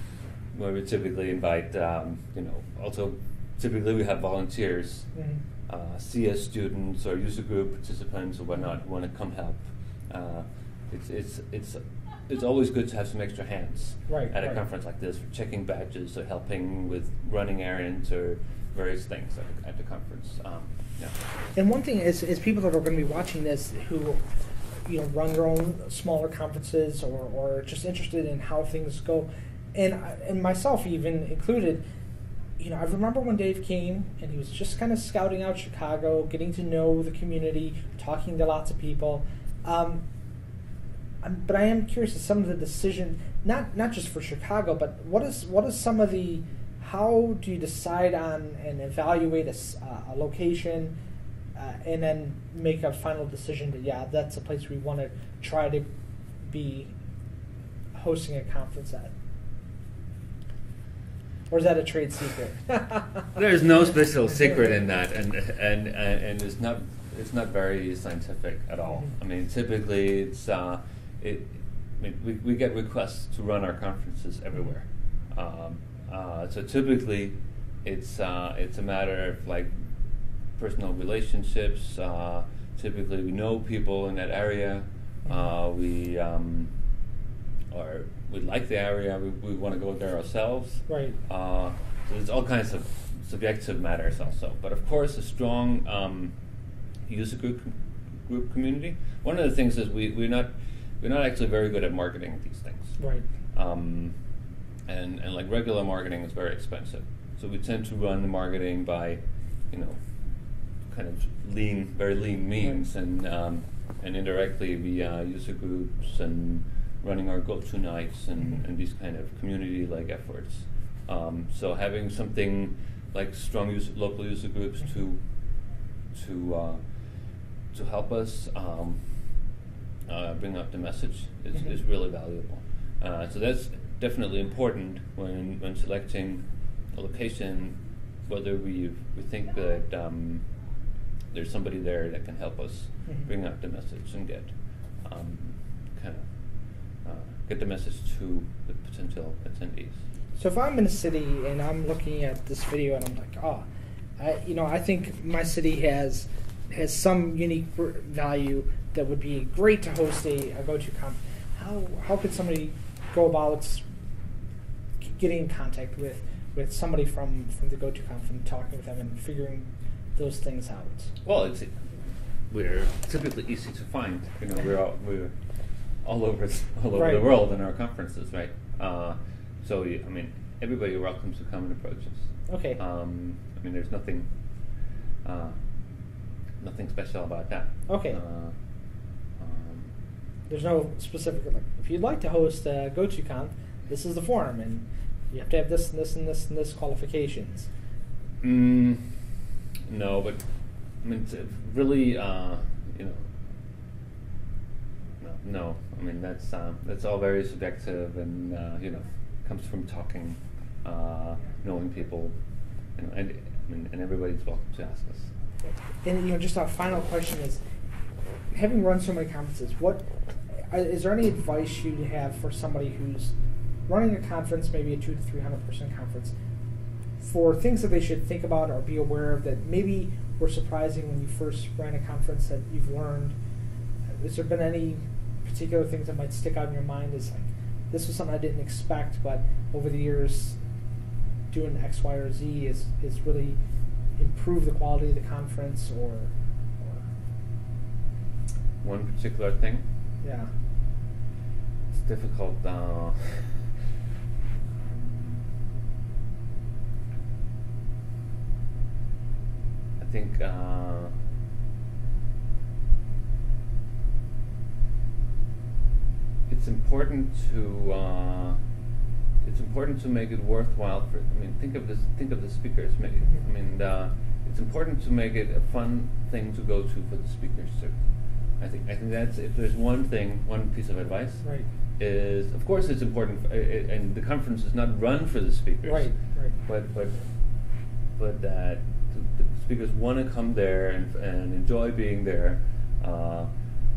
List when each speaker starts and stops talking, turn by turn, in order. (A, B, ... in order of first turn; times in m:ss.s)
0:00.5-0:05.1 A
0:05.1-0:05.4 B
0:05.7-0:21.1 A
0:14.1-0:14.6 B
0:21.6-0:24.2 B
0:24.9-0:31.8 B
0:32.6-0:40.0 B
0:41.2-0:50.9 B
0:51.6-0:55.9 B
0:56.4-0:56.9 B
0:57.9-0:59.1 B
1:01.5-1:03.3 B
1:03.4-1:19.7 A
1:20.6-1:26.7 A
1:27.7-1:36.3 A
1:30.9-1:31.2 B
1:37.0-1:40.5 A
1:41.0-1:43.0 A
1:43.0-1:43.2 B
1:43.5-1:44.1 A
1:44.9-1:49.2 A
1:50.9-2:05.2 A
2:06.1-2:06.8 A
2:07.7-2:09.0 A
2:10.1-2:16.4 A
2:16.9-2:20.4 A
2:21.3-2:24.5 A
2:25.0-2:26.2 A
2:27.0-2:30.0 A
2:30.4-2:33.6 B
2:34.2-2:43.8 B
2:45.0-2:51.1 B
2:51.2-2:51.7 A
2:52.5-2:55.3 A
2:56.0-3:04.3 A
2:56.9-2:57.3 B
3:02.5-3:02.8 B
3:05.2-3:05.5 A
3:06.6-3:08.5 A
3:07.9-3:08.2 B
3:09.4-3:09.9 A
3:10.5-3:17.7 B
3:18.4-3:19.2 A
3:19.9-3:20.4 A
3:21.0-3:23.3 A
3:25.2-3:32.4 A
3:33.0-3:35.3 A
3:35.7-3:37.6 B
3:38.5-3:40.0 B
3:40.7-3:43.3 B
3:43.9-3:46.3 B
3:47.2-3:53.4 B
3:54.2-4:00.6 B
4:01.5-4:03.6 B
4:04.2-4:07.0 B
4:08.8-4:09.8 A
4:10.2-4:10.5 B
4:11.9-4:13.7 A
4:14.8-4:15.4 A
4:20.0-4:21.1 A
4:26.5-4:28.6 A
4:29.4-4:38.0 A
4:38.6-4:41.4 A
4:42.0-4:46.1 A
4:45.8-4:46.5 B
4:46.6-4:47.2 A
4:48.2-4:53.5 A